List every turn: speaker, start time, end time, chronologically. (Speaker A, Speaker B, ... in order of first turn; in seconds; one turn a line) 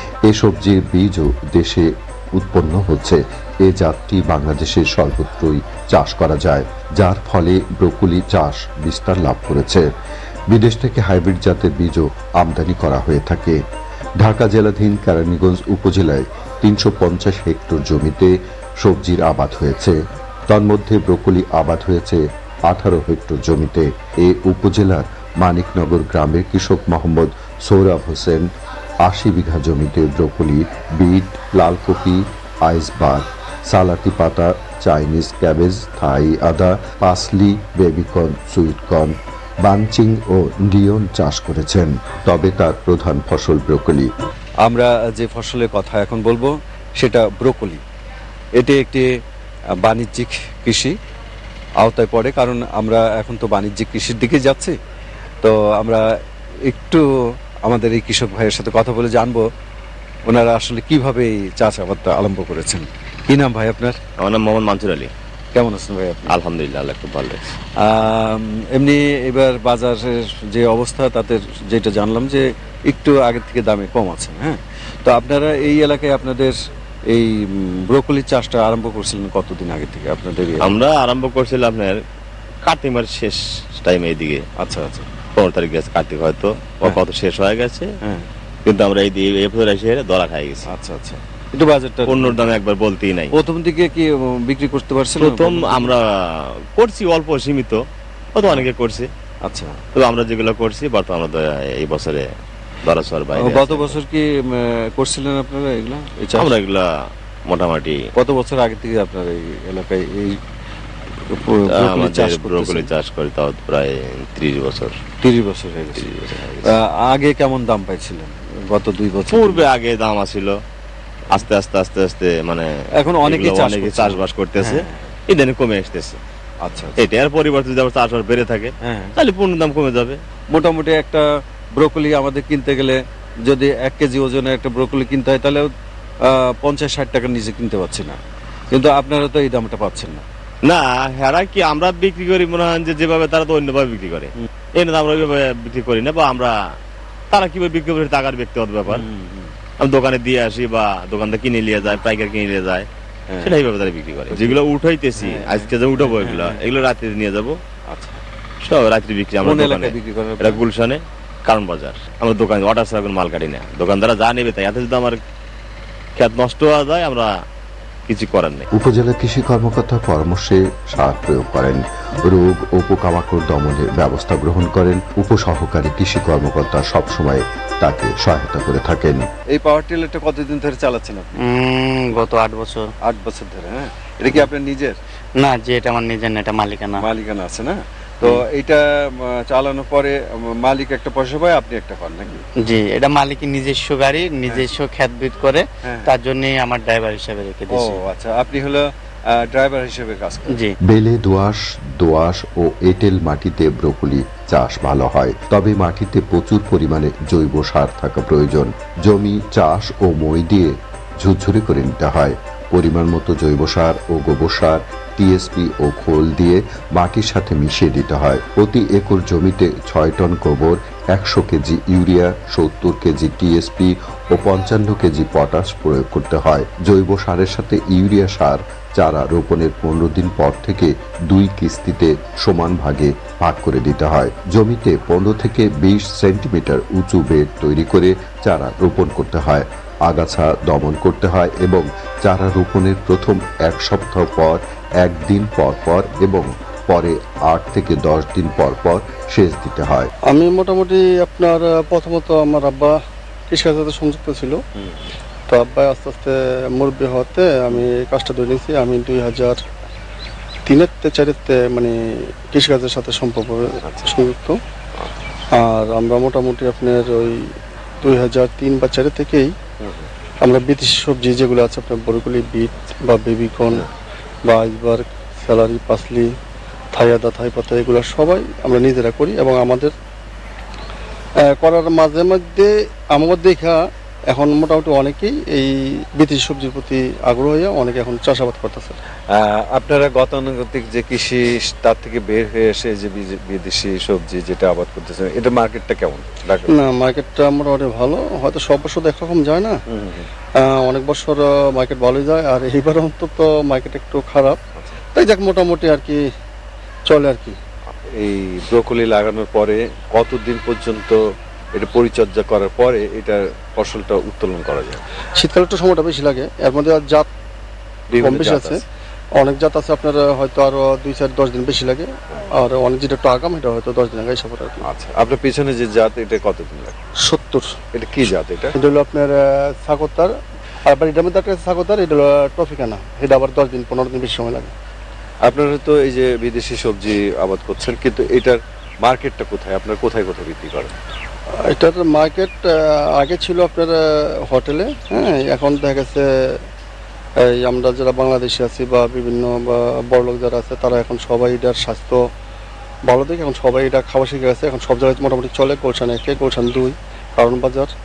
Speaker A: 0.2-9.9
Speaker A: 10.5-13.6
Speaker A: 14.2-20.0
Speaker A: 20.5-28.5
Speaker A: 29.0-44.1
Speaker B: 44.6-47.8
Speaker B: 48.6-49.1
Speaker B: 49.8-50.9
Speaker B: 51.8-54.7
Speaker B: 55.4-56.1
Speaker B: 56.7-57.0
Speaker B: 57.6-59.4
Speaker B: 60.3-64.0
Speaker C: 64.2-65.1
Speaker B: 65.5-66.3
Speaker C: 66.3-67.5
Speaker B: 67.8-76.5
Speaker B: 77.1-80.8
Speaker C: 80.6-82.0
Speaker C: 82.6-84.4
Speaker B: 84.6-85.0
Speaker C: 85.3-87.9
Speaker C: 88.7-90.7
Speaker B: 90.7-92.4
Speaker C: 92.0-93.3
Speaker B: 93.3-95.9
Speaker C: 95.2-96.0
Speaker C: 96.8-97.8
Speaker C: 98.3-99.1
Speaker B: 99.4-99.8
Speaker C: 99.9-102.3
Speaker C: 102.8-104.0
Speaker B: 103.4-106.5
Speaker C: 106.3-106.8
Speaker C: 107.5-108.0
Speaker B: 108.2-110.4
Speaker B: 111.3-112.9
Speaker C: 111.7-115.0
Speaker B: 115.2-119.6
Speaker C: 116.0-116.7
Speaker C: 119.3-120.5
Speaker C: 121.3-126.2
Speaker B: 123.0-125.1
Speaker B: 126.6-127.0
Speaker C: 127.0-130.2
Speaker B: 128.8-129.1
Speaker B: 130.5-135.7
Speaker B: 136.3-138.2
Speaker B: 138.7-140.2
Speaker C: 140.6-146.5
Speaker C: 147.3-149.0
Speaker B: 148.9-149.5
Speaker C: 149.8-152.9
Speaker B: 153.3-153.6
Speaker C: 153.4-157.6
Speaker B: 154.3-154.6
Speaker B: 155.2-156.6
Speaker B: 157.9-158.2
Speaker C: 158.6-165.2
Speaker B: 159.4-160.6
Speaker C: 166.2-167.3
Speaker C: 168.1-168.7
Speaker A: 168.7-179.2
Speaker B: 179.5-181.4
Speaker D: 181.4-182.9
Speaker B: 183.0-185.0
Speaker D: 185.4-187.0
Speaker B: 187.0-192.4
Speaker D: 192.6-198.0
Speaker B: 195.8-196.1
Speaker B: 197.7-200.7
Speaker A: 200.8-250.1
Speaker E: 250.3-253.0
Speaker E: 253.5-254.6
Speaker E: 255.5-259.6
Speaker E: 260.7-264.6
Speaker B: 263.8-264.2
Speaker E: 265.5-267.5
Speaker E: 268.0-269.5
Speaker B: 269.8-270.1
Speaker E: 270.4-273.8
Speaker E: 274.4-276.3
Speaker E: 276.9-279.9
Speaker E: 281.6-289.0
Speaker B: 289.3-296.8
Speaker E: 296.7-299.8
Speaker B: 299.9-300.3
Speaker E: 300.6-304.6
Speaker E: 305.1-306.2
Speaker E: 307.1-307.6
Speaker B: 308.1-311.2
Speaker B: 311.7-315.0
Speaker E: 315.4-317.3
Speaker B: 318.1-318.8
Speaker E: 318.2-318.8
Speaker E: 319.4-324.8
Speaker B: 324.8-327.0
Speaker E: 327.2-327.7
Speaker B: 327.9-328.8
Speaker E: 328.8-330.3
Speaker E: 330.9-334.7
Speaker B: 335.4-340.9
Speaker E: 341.7-346.6
Speaker E: 347.6-352.2
Speaker E: 353.1-357.9